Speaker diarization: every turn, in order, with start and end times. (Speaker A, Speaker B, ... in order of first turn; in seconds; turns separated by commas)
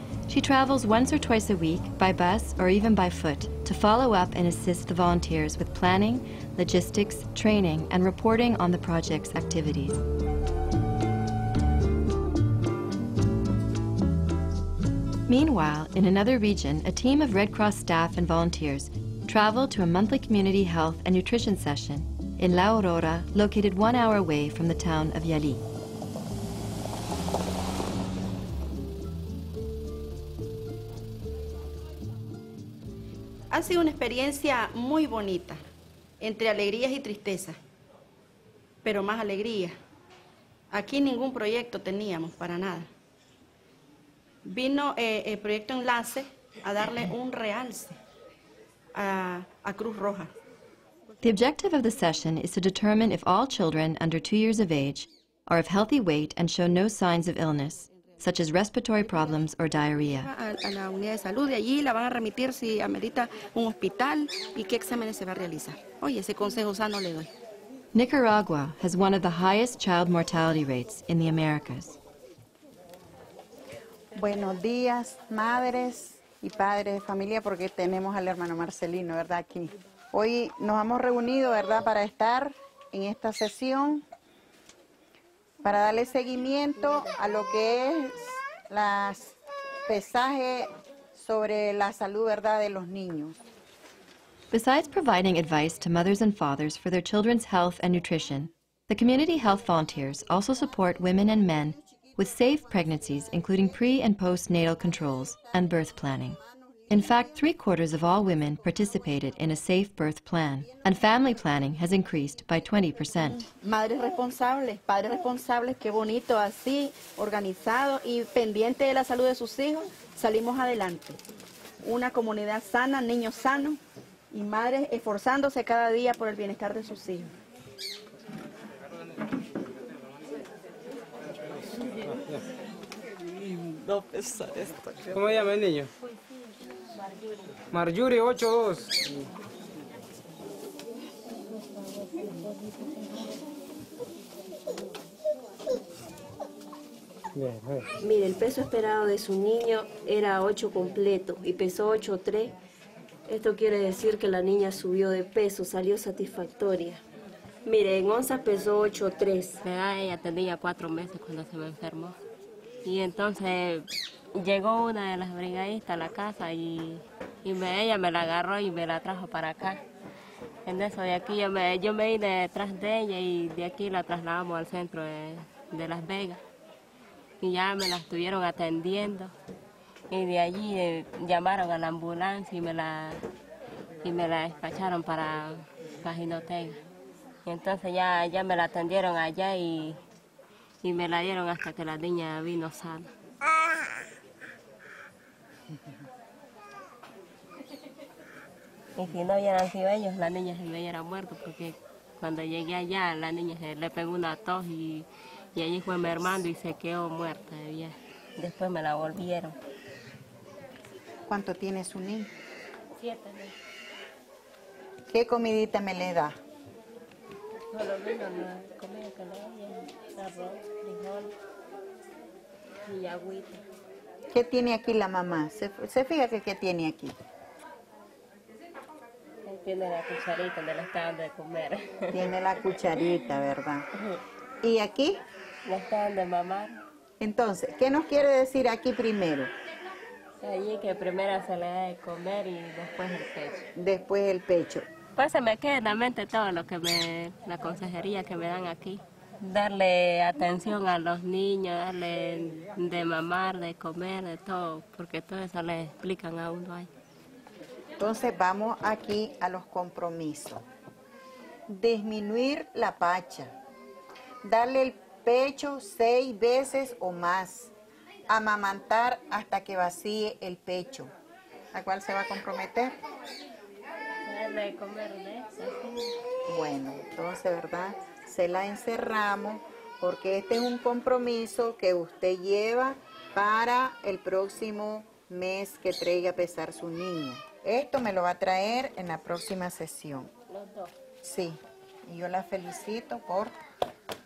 Speaker A: 0.3-10.0, Speaker A: 15.3-25.6, Speaker B: 33.5-35.6, Speaker B: 36.2-37.6, Speaker B: 38.8-39.8, Speaker B: 40.7-42.9, Speaker B: 44.4-48.0, Speaker B: 48.9-50.3, Speaker A: 51.2-60.3, Speaker B: 60.2-67.3, Speaker A: 67.9-72.0, Speaker C: 74.1-84.0, Speaker C: 85.6-93.3, Speaker A: 94.5-106.4, Speaker A: 106.9-113.4, Speaker B: 113.6-121.2, Speaker B: 121.8-123.8, Speaker B: 124.3-127.3, Speaker D: 135.1-135.9, Speaker D: 137.7-139.0, Speaker D: 147.4-147.7, Speaker E: 148.0-152.5, Speaker E: 153.3-157.0, Speaker E: 157.6-159.6, Speaker F: 159.6-162.2, Speaker F: 162.8-169.8, Speaker F: 170.6-176.4, Speaker F: 177.4-179.3, Speaker F: 180.1-183.2, Speaker F: 184.0-186.8, Speaker F: 187.4-190.0, Speaker F: 190.8-193.1, Speaker F: 198.9-209.5, Speaker C: 211.3-212.3, Speaker F: 213.0-213.5, Speaker C: 215.1-216.3, Speaker F: 217.7-221.3, Speaker F: 222.9-223.6, Speaker C: 224.3-227.1, Speaker F: 229.4-232.2, Speaker C: 232.1-233.8, Speaker C: 234.6-235.2, Speaker F: 235.7-236.8, Speaker C: 237.2-239.5, Speaker F: 240.4-243.6, Speaker C: 243.8-244.8, Speaker F: 245.2-256.9, Speaker C: 258.0-260.6, Speaker C: 261.7-263.5, Speaker C: 264.4-267.7, Speaker C: 268.3-271.1, Speaker C: 271.7-272.9, Speaker F: 274.2-276.1, Speaker C: 276.5-290.3, Speaker F: 290.5-290.9, Speaker C: 291.2-293.5